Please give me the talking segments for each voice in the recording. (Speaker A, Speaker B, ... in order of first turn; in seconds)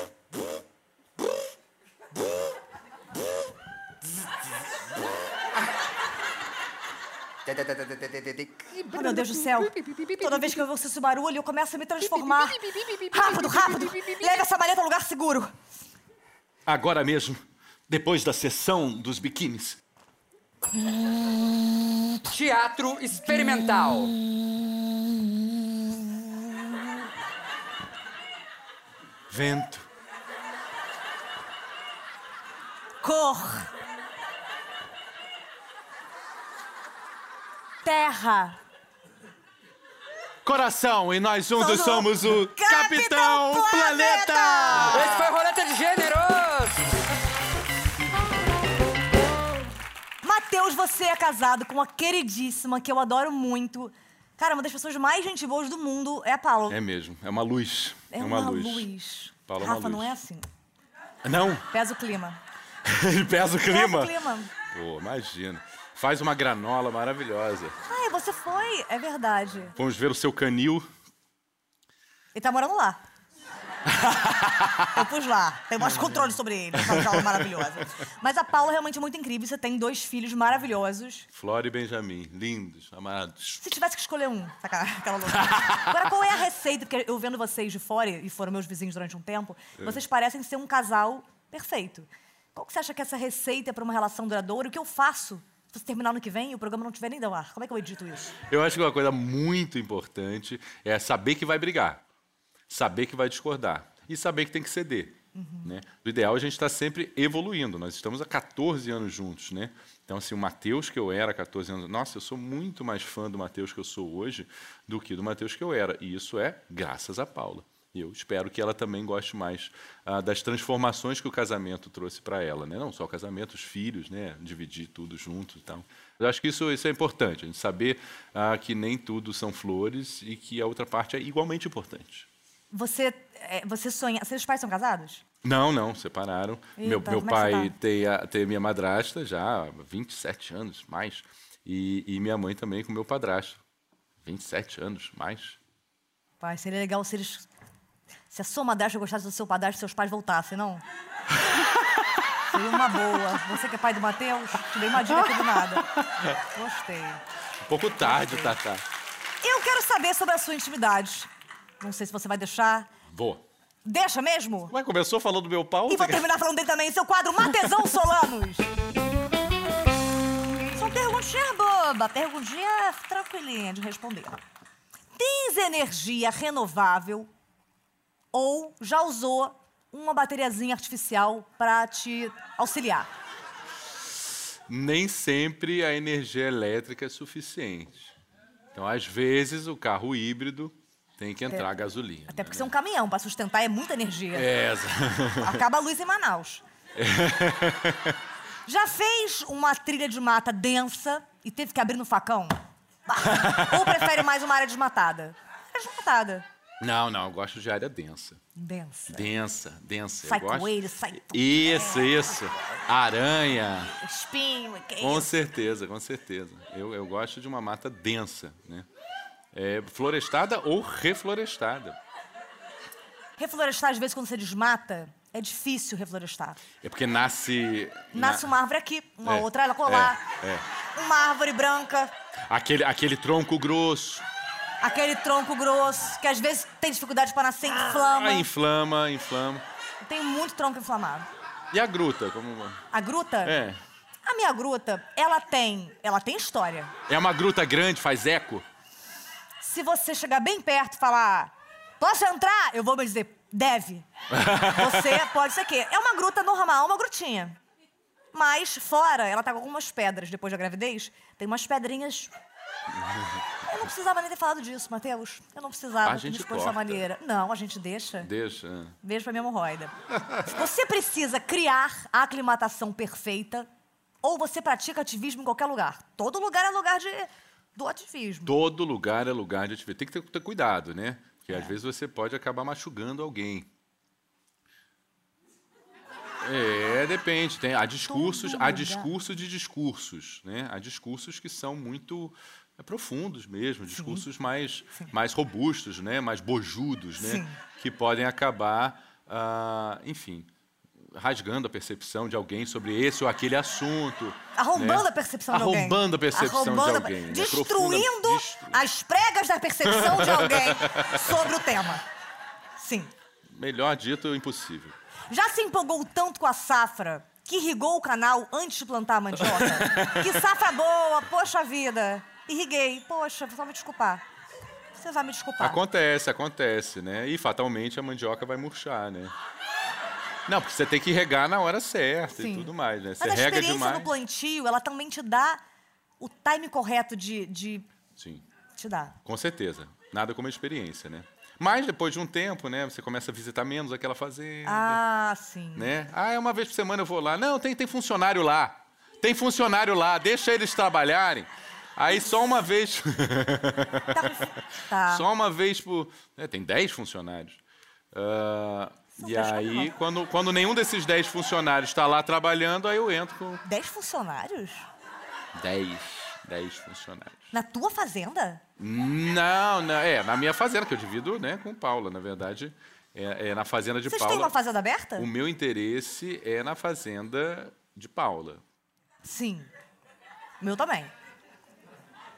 Speaker A: 7.5-10.6, 12.0-14.4, 22.3-24.2, 44.8-46.9
Speaker B: 8.9-15.5, 24.3-24.6, 33.0-33.7, 37.8-38.6, 41.6-45.1, 50.2-56.8, 58.1-60.5, 61.7-62.4, 63.7-64.5, 67.9-69.8, 72.3-73.0, 74.9-81.3, 83.6-98.4, 105.3-105.7, 132.7-135.2, 136.8-137.7, 146.4-147.5, 148.3-150.8, 152.5-157.2, 158.0-158.5, 159.4-162.9, 163.8-164.7, 165.9-168.7, 170.7-174.4, 175.2-177.3, 178.3-183.1, 192.3-194.5, 195.4-196.6, 198.7-206.5, 208.6-209.3, 210.2-212.3, 213.9-215.3, 223.4-226.6, 228.1-230.2, 230.9-232.1, 234.8-238.5, 240.0-241.3, 242.9-243.6, 244.2-246.9, 249.6-257.6, 258.3-262.4, 263.7-268.3, 269.0-273.7, 274.2-278.5, 288.1-289.1, 293.9-294.3, 297.2-297.6, 304.6-312.0, 312.8-313.1, 315.3-324.2, 324.9-325.8, 332.4-335.6, 336.2-337.9, 338.8-339.2, 344.6-345.9, 354.1-355.2, 359.2-359.9, 363.6-364.9, 367.5-368.6, 374.1-375.3, 379.2-379.7, 380.6-381.1
Speaker C: 16.7-19.8, 29.3-29.9, 40.5-45.1, 56.7-58.9, 59.5-60.1, 61.2-61.7, 62.8-67.8, 69.8-70.9, 73.9-74.9, 76.8-77.7, 81.3-83.6, 85.3-86.0, 98.4-102.0, 102.7-132.3, 135.4-143.6, 144.2-145.6, 155.1-156.3, 157.7-158.8, 163.1-163.4, 164.7-166.3, 184.7-188.1, 188.7-192.7, 194.3-195.6, 196.9-198.2, 203.2-204.2, 206.8-208.4, 209.1-210.8, 211.3-213.9, 215.0-218.9, 219.5-222.0, 226.8-228.6, 229.2-230.7, 232.5-234.3, 237.8-239.6, 241.7-242.8, 243.4-243.8, 247.1-248.7, 254.3-255.2, 262.9-263.4, 266.0-267.1, 268.2-269.0, 278.4-283.7, 286.4-300.5, 301.0-308.8, 309.9-311.3, 313.5-314.9, 319.4-320.4, 325.6-329.3, 330.5-334.1, 338.2-338.4, 339.2-345.0, 345.8-354.3, 355.1-357.6, 358.1-363.6, 365.6-367.5, 368.8-374.5, 375.2-378.6